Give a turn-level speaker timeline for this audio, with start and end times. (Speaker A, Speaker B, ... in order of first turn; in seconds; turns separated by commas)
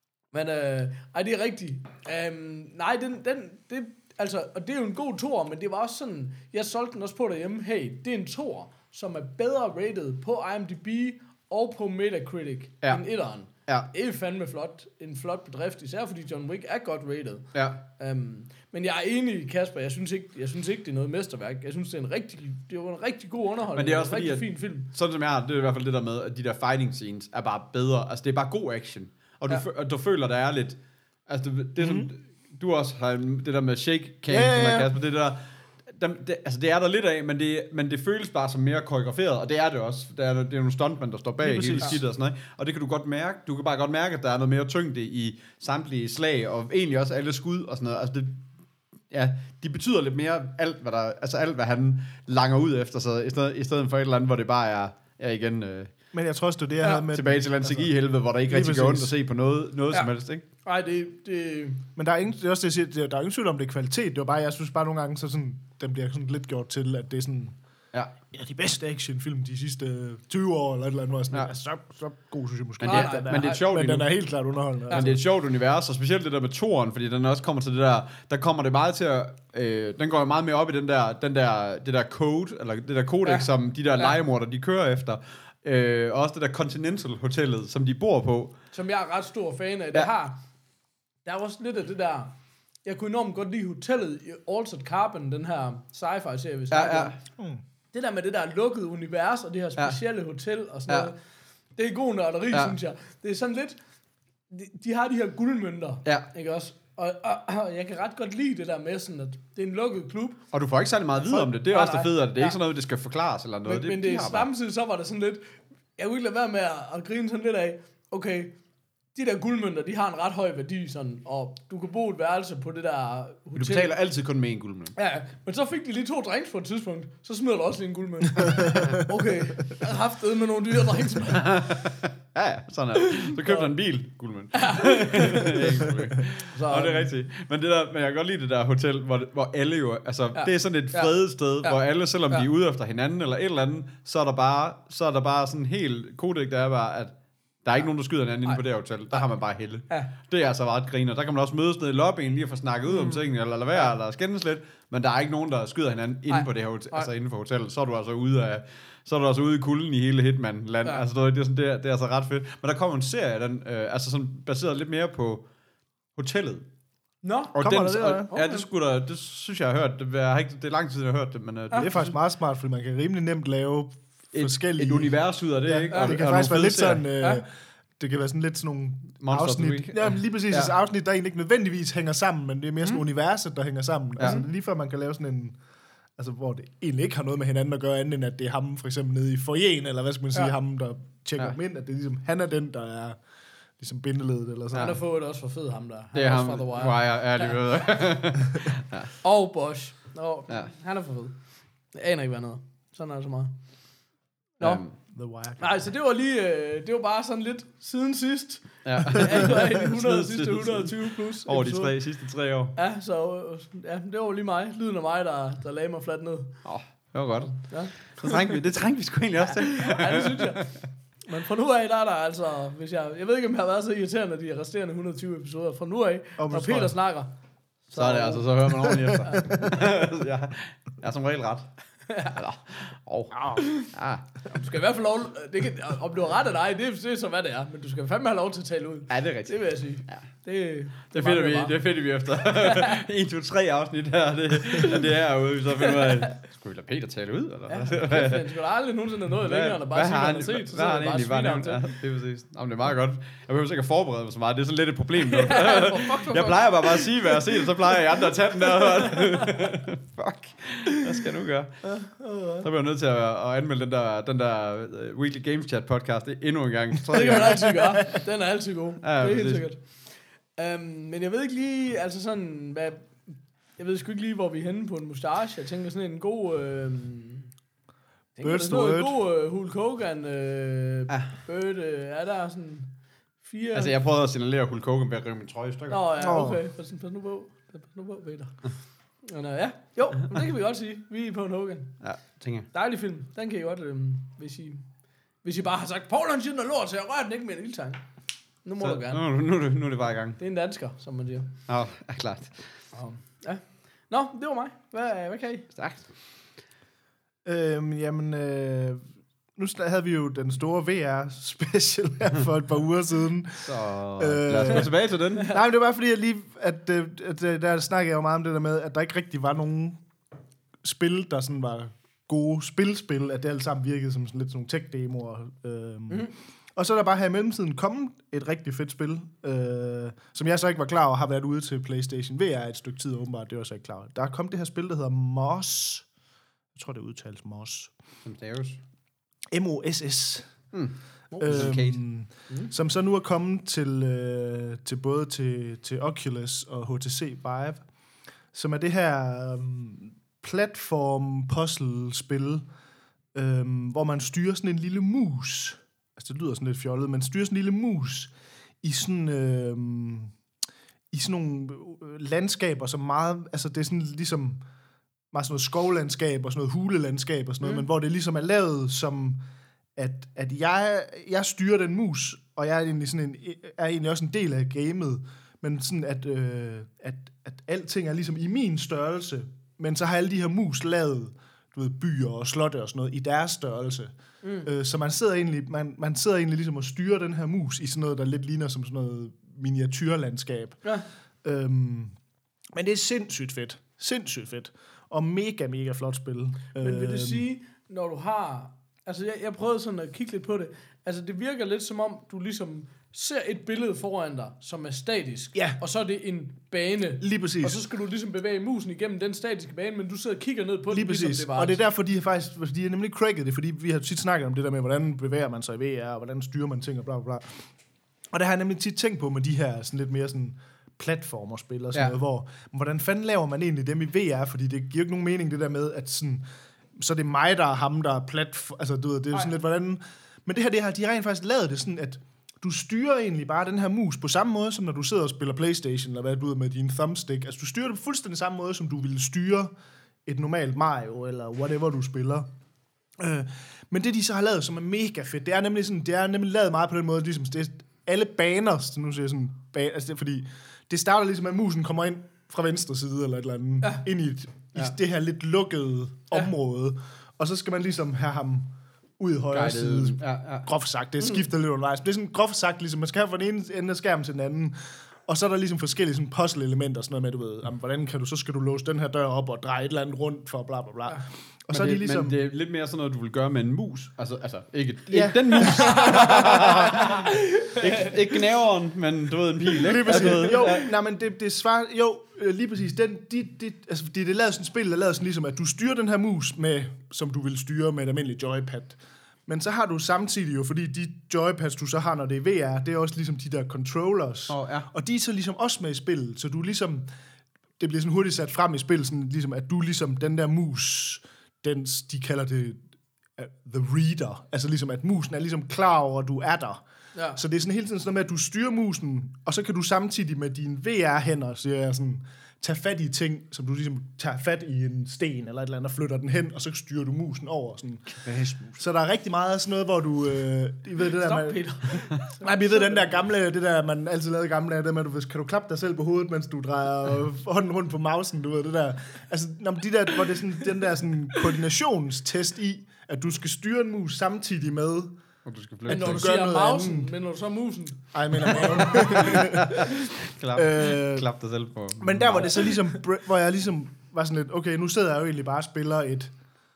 Speaker A: 0.3-24.9, Speaker B: 17.5-17.8, Speaker B: 23.7-35.4, Speaker C: 31.8-32.1, Speaker C: 34.3-34.9, Speaker B: 35.9-48.4, Speaker C: 41.4-42.0, Speaker B: 49.1-55.9, Speaker C: 56.1-57.9, Speaker B: 57.1-60.4, Speaker C: 58.5-59.1, Speaker A: 60.6-61.8, Speaker C: 62.0-67.5, Speaker C: 68.3-75.2, Speaker B: 72.8-74.1, Speaker A: 72.8-73.6, Speaker B: 74.9-88.5, Speaker A: 88.7-90.4, Speaker A: 91.2-92.3, Speaker A: 92.8-97.2, Speaker B: 96.7-97.1, Speaker A: 97.9-101.2, Speaker A: 101.8-103.8, Speaker B: 102.5-102.8, Speaker A: 104.5-110.4, Speaker B: 110.5-114.5, Speaker A: 111.3-112.6, Speaker A: 113.6-115.4, Speaker A: 116.0-118.5, Speaker A: 119.1-123.9, Speaker B: 123.5-124.9, Speaker A: 125.0-131.6, Speaker B: 131.2-165.4, Speaker A: 133.0-133.7, Speaker A: 134.6-135.9, Speaker A: 136.4-137.1, Speaker A: 140.3-142.4, Speaker A: 148.4-149.3, Speaker A: 152.9-153.2, Speaker A: 156.3-157.1, Speaker B: 166.2-166.7, Speaker A: 167.2-167.6, Speaker B: 167.5-172.0, Speaker C: 167.6-168.4, Speaker A: 168.3-168.6, Speaker A: 171.7-172.0, Speaker C: 171.7-177.5, Speaker B: 174.3-177.1, Speaker A: 175.9-176.2, Speaker C: 178.0-185.6, Speaker B: 179.2-180.7, Speaker C: 186.2-193.2, Speaker C: 193.8-195.0, Speaker B: 194.7-195.0, Speaker A: 194.8-197.6, Speaker B: 196.1-199.1, Speaker A: 199.2-201.3, Speaker A: 201.9-203.5, Speaker B: 204.6-204.9, Speaker C: 205.1-205.8, Speaker A: 205.6-211.9, Speaker B: 208.8-212.8, Speaker A: 212.8-216.6, Speaker B: 216.6-220.7, Speaker A: 217.6-218.3, Speaker A: 219.5-220.7, Speaker A: 221.2-227.3, Speaker C: 226.4-226.9, Speaker A: 227.9-229.7, Speaker B: 227.9-234.3, Speaker A: 232.1-232.3, Speaker A: 233.5-233.9, Speaker A: 234.5-241.8, Speaker B: 239.1-240.2, Speaker B: 241.1-248.5, Speaker A: 242.5-243.0, Speaker A: 245.9-246.2, Speaker A: 247.7-251.9, Speaker B: 249.4-261.9, Speaker A: 255.2-259.5, Speaker A: 261.8-262.6, Speaker B: 262.6-267.8, Speaker A: 267.1-269.8, Speaker B: 269.0-269.6, Speaker A: 270.6-273.2, Speaker A: 273.8-277.5, Speaker A: 278.4-283.9, Speaker C: 278.4-279.2, Speaker B: 283.7-286.1, Speaker A: 285.9-288.6, Speaker C: 286.2-286.6, Speaker A: 289.2-291.9, Speaker B: 292.0-292.7, Speaker A: 292.7-294.8, Speaker A: 295.4-298.0, Speaker A: 298.6-299.2, Speaker B: 298.8-300.4, Speaker A: 300.4-301.5, Speaker B: 301.7-302.6, Speaker A: 302.9-305.7, Speaker B: 305.7-306.1, Speaker C: 307.4-309.0, Speaker C: 309.6-320.0, Speaker B: 313.6-315.5, Speaker C: 320.8-336.1, Speaker C: 336.7-337.9, Speaker B: 338.2-338.8, Speaker C: 339.5-340.5, Speaker B: 340.7-342.0, Speaker A: 341.3-341.7, Speaker C: 341.4-347.8, Speaker C: 348.5-352.6, Speaker C: 353.3-360.3, Speaker C: 361.1-364.6, Speaker C: 365.3-369.4, Speaker C: 369.9-384.1, Speaker A: 384.4-384.7, Speaker C: 384.6-390.8, Speaker C: 391.4-392.1, Speaker C: 392.7-397.5, Speaker A: 396.8-411.8, Speaker C: 407.2-407.8, Speaker C: 410.9-417.6, Speaker C: 418.3-426.4, Speaker C: 426.9-439.7, Speaker C: 440.2-442.5, Speaker C: 443.2-464.8, Speaker B: 459.5-460.7, Speaker C: 465.3-472.4, Speaker B: 471.7-480.9, Speaker C: 475.1-477.1, Speaker A: 475.8-478.2, Speaker C: 479.8-497.1, Speaker B: 494.5-494.9, Speaker C: 497.8-502.8, Speaker C: 503.4-506.8, Speaker A: 507.1-507.4, Speaker C: 507.3-518.1, Speaker B: 518.1-518.8, Speaker C: 518.7-521.6, Speaker A: 521.2-523.2, Speaker C: 522.2-535.1, Speaker B: 535.5-536.3, Speaker C: 535.9-537.1, Speaker A: 535.9-539.5, Speaker C: 538.1-539.9, Speaker B: 539.0-542.8, Speaker C: 540.5-541.3, Speaker C: 542.0-546.3